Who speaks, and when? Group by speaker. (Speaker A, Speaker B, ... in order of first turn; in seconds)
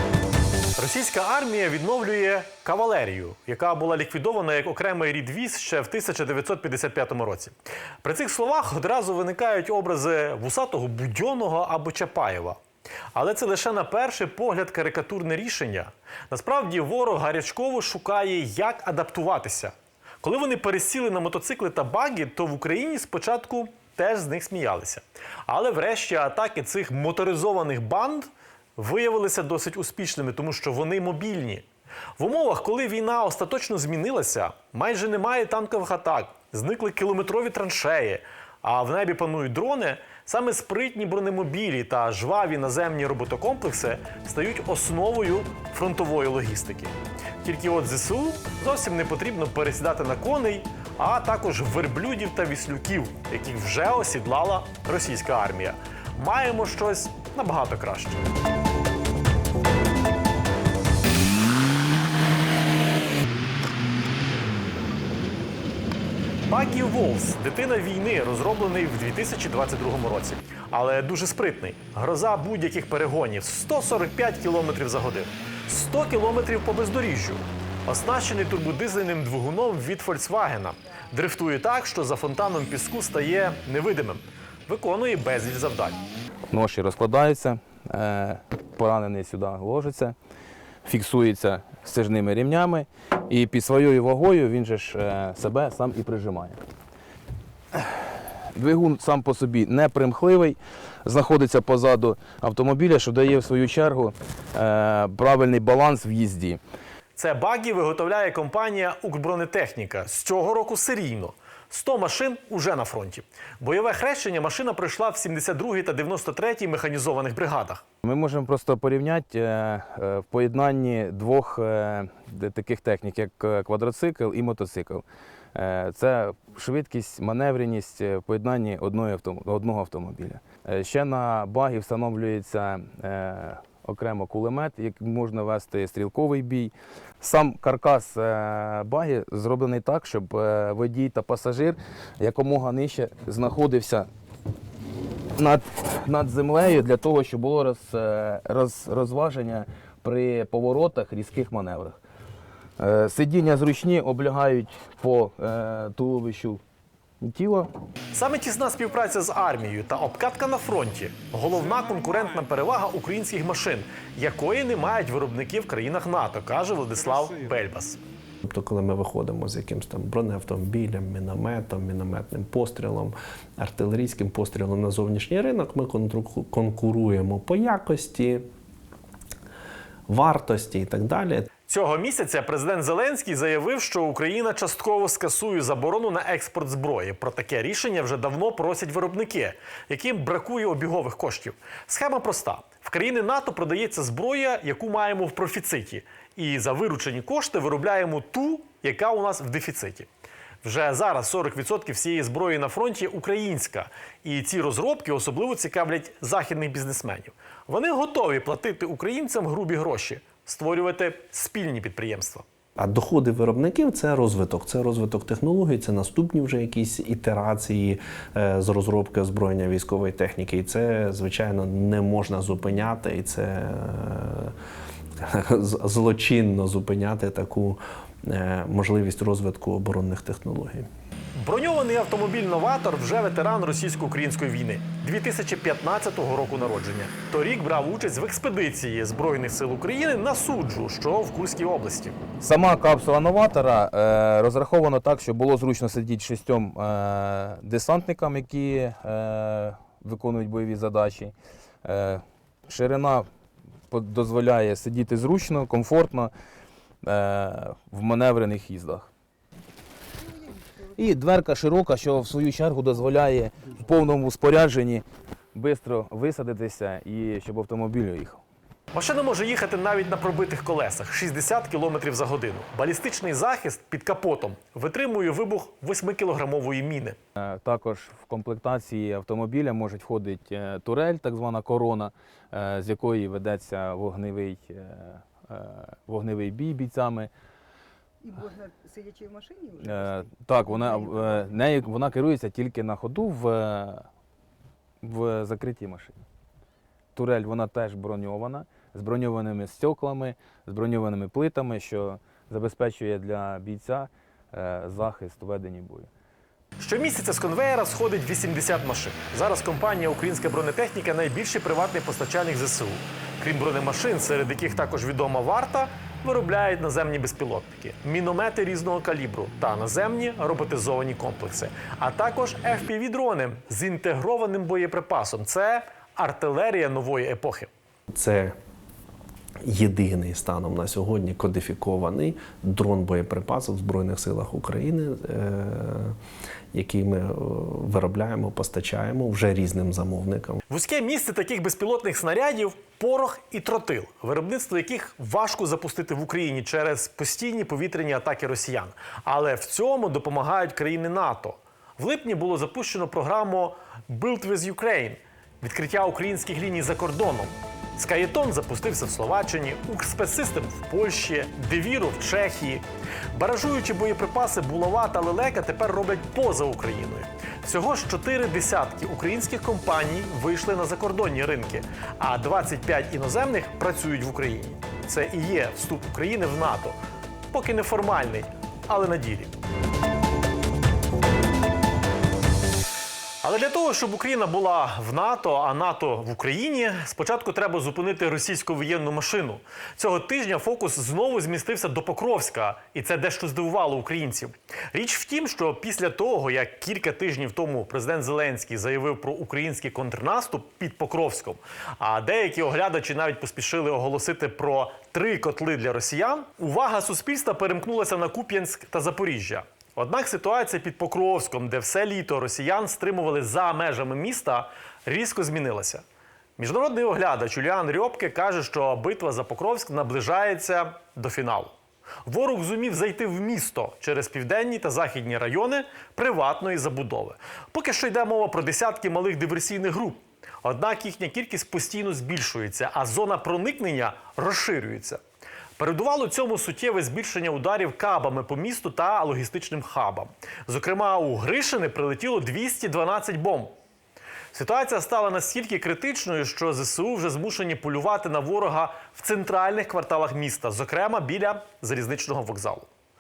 Speaker A: 0.8-12.6, 13.2-31.6, 32.2-58.2, 66.5-86.0, 107.2-117.8, 158.1-168.0, 181.7-200.1, 200.6-212.4, 231.4-242.2, 268.9-277.2, 306.8-327.7, 340.7-377.0, 377.5-379.5, 383.4-416.0, 416.6-421.8, 422.3-435.2, 435.8-443.8, 444.5-452.9
Speaker B: 86.5-90.2, 90.8-96.6, 97.8-106.6, 118.0-144.1, 145.4-152.0, 152.8-156.6, 157.2-157.7, 242.4-251.3, 251.8-253.3, 253.9-256.3, 257.0-259.1, 261.0-265.0, 265.6-268.4, 277.4-287.3, 289.8-294.1, 295.0-296.2, 297.1-306.1
Speaker C: 168.4-178.5, 180.1-181.5, 212.8-224.6, 225.2-230.9, 328.1-328.6, 329.6-336.2, 336.7-340.6
Speaker D: 260.2-261.0, 288.2-291.5